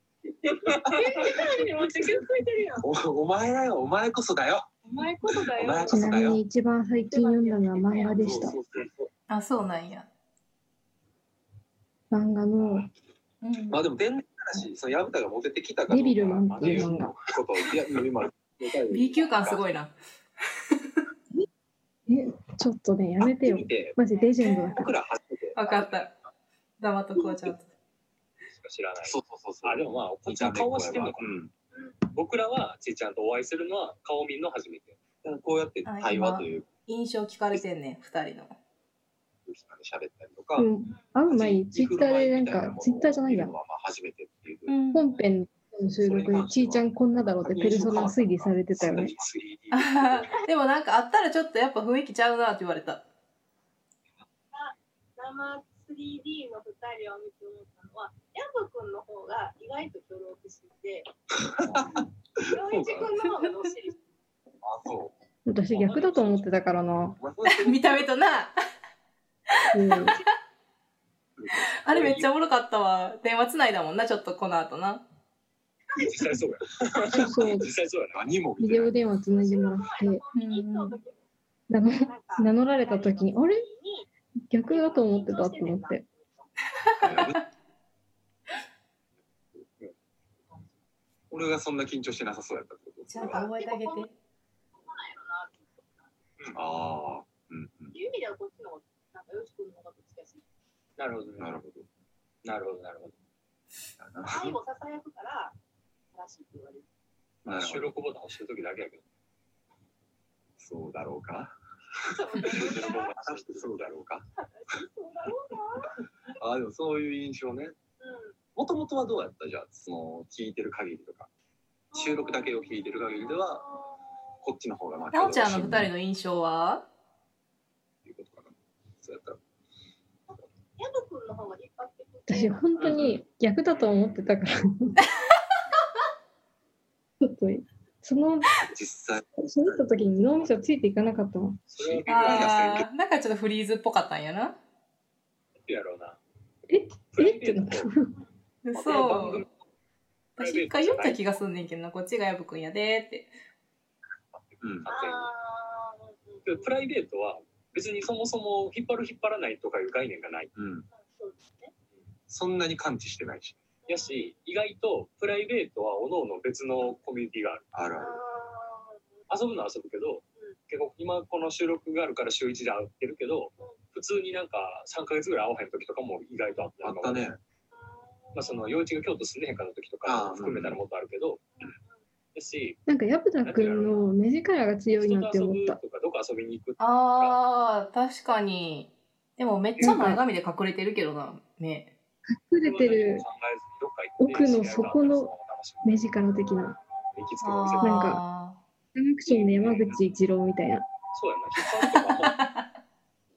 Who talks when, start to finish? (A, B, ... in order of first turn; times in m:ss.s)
0:00.8-0:02.8 A
0:02.8-0:04.7 B
0:04.8-0:06.2 A
0:05.3-0:06.4 B
0:05.9-0:08.6 C
0:07.1-0:08.4 A
0:08.1-0:09.1 B
0:09.3-0:10.1 D
0:12.1-0:12.9 C
0:13.4-0:13.8 D
0:13.7-0:19.7 B
0:15.9-0:17.2 C
0:16.5-0:17.2 E
0:18.9-0:19.9 D
0:22.1-0:24.9 C
0:23.2-0:24.0 B
0:24.1-0:24.7 A
0:24.7-0:26.0 B
0:25.6-0:26.1 D
0:26.8-0:27.7 D
0:28.5-0:31.4 E
0:29.0-0:31.5 B
0:32.1-0:35.0 E
0:35.2-0:36.7 B
0:35.8-0:38.6 D
0:39.5-0:40.7 B
0:40.6-0:43.5 C
0:41.3-0:44.7 B
0:44.7-0:45.1 D
0:44.9-0:49.1 C
0:46.0-0:46.9 B
0:46.1-0:46.5 E
0:47.4-0:49.9 B
0:48.8-0:50.2 E
0:49.7-0:53.0 D
0:54.5-1:01.1 A
1:01.4-1:03.2 B
1:02.4-1:04.0 A
1:04.6-1:05.1 B
1:05.5-1:07.2 C
1:05.7-1:06.5 E
1:07.2-1:08.1 B
1:07.5-1:08.6 D
1:09.5-1:10.2 D
1:09.7-1:10.2 C
1:11.4-1:12.3 B
1:11.8-1:15.0 D
1:16.0-1:18.3 E
1:17.1-1:17.7 C
1:17.2-1:19.0 B
1:18.6-1:20.2 C
1:19.3-1:21.2 A
1:20.4-1:21.0 D
1:21.7-1:23.7 C
1:22.0-1:24.1 A
1:24.5-1:26.0 C
1:24.6-1:26.5 A
1:27.0-1:27.4 B
1:27.0-1:27.3 D
1:31.3-1:33.5 B
1:33.1-1:34.1 D
1:33.2-1:34.1 A
1:34.8-1:36.1 A
1:36.5-1:37.9 B
1:37.9-1:40.4 A
1:41.0-1:41.6 E
1:41.4-1:41.9 B
1:42.4-1:43.1 E
1:44.0-1:44.6 B
1:44.3-1:45.6 A
1:46.1-1:46.9 A
1:47.4-1:47.9 B
1:47.5-1:49.0 E
1:50.6-1:54.3 B
1:52.1-1:53.1 A
1:52.5-1:54.0 E
1:54.4-1:56.0 A
1:56.4-1:57.8 B
1:58.0-1:58.4 A
1:58.6-2:01.3 B
2:01.9-2:04.0 A
2:01.9-2:03.6 B
2:04.4-2:05.9 B
2:05.1-2:06.9 D
2:08.0-2:09.4 B
2:10.3-2:12.9 A
2:12.3-2:15.0 C
2:12.8-2:13.1 E
2:17.2-2:18.6 C
2:18.6-2:20.5 B
2:19.4-2:21.6 C
2:21.7-2:22.8 E
2:21.8-2:22.9 B
2:22.1-2:24.6 D
2:25.6-2:26.2 E
2:26.7-2:28.1 C
2:27.1-2:27.9 E
2:28.6-2:29.4 D
2:28.7-2:29.5 E
2:30.4-2:33.3 D
2:30.4-2:31.3 E
2:34.4-2:35.3 E
2:34.6-2:34.9 B
2:34.9-2:36.7 A
2:36.4-2:40.5 E
2:40.6-2:40.9 B
2:40.9-2:41.7 A
2:42.3-2:43.6 B
2:43.9-2:44.3 A
2:43.9-2:47.7 E
2:47.7-2:48.2 B
2:48.0-2:49.0 A
2:49.3-2:57.3 E
2:56.8-2:57.4 B
2:57.7-2:58.8 A
2:58.4-3:01.5 E
3:00.0-3:00.8 B
3:01.6-3:02.0 A
3:02.4-3:02.8 E
3:02.9-3:05.8 C
3:03.4-3:04.1 E
3:04.9-3:07.4 E
3:06.8-3:11.9 D
3:09.8-3:10.2 C
3:12.3-3:13.2 C
3:12.6-3:16.1 E
3:14.2-3:15.3 C
3:15.8-3:16.8 C
3:16.4-3:17.0 A
3:17.1-3:18.2 E
3:17.4-3:18.6 D
3:17.8-3:18.2 C
3:19.0-3:20.9 C
3:19.3-3:20.0 E
3:21.1-3:22.4 E
3:22.2-3:22.7 D